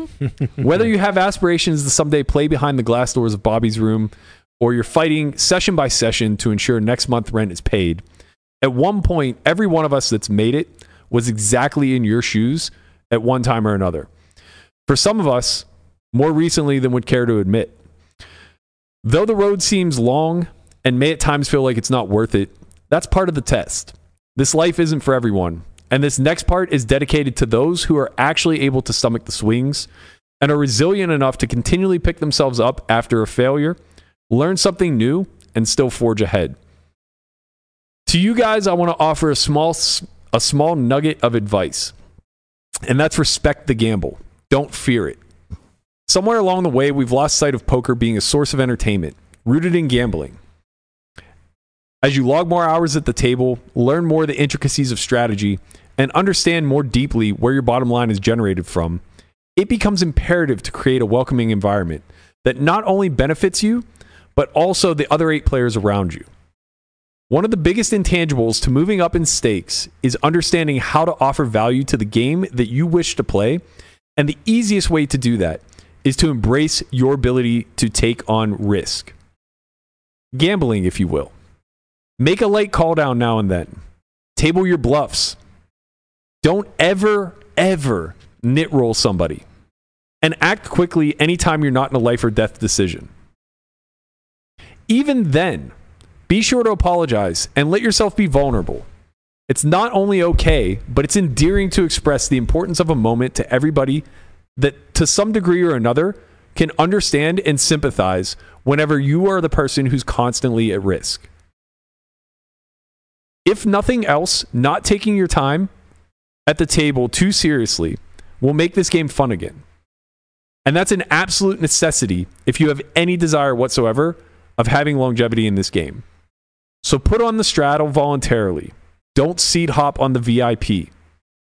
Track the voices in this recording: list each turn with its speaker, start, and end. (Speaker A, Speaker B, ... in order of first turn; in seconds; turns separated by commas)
Speaker A: 0.6-8.0, Speaker A: 8.6-14.1, Speaker A: 14.9-17.8, Speaker A: 19.0-29.9, Speaker A: 30.4-33.8, Speaker A: 34.3-36.5, Speaker A: 38.1-41.9, Speaker A: 42.9-45.2, Speaker A: 46.1-50.4, Speaker A: 52.0-59.0, Speaker A: 59.5-63.8, Speaker A: 64.3-66.3, Speaker A: 67.3-73.6, Speaker A: 74.2-79.1, Speaker A: 80.3-81.3, Speaker A: 82.2-83.7, Speaker A: 84.3-85.4, Speaker A: 86.4-89.4, Speaker A: 90.2-93.1, Speaker A: 94.9-95.7, Speaker A: 96.3-98.9, Speaker A: 99.5-104.0, Speaker A: 104.6-111.3, Speaker A: 113.5-115.7, Speaker A: 116.5-119.6, Speaker A: 120.6-126.0, Speaker A: 126.8-130.9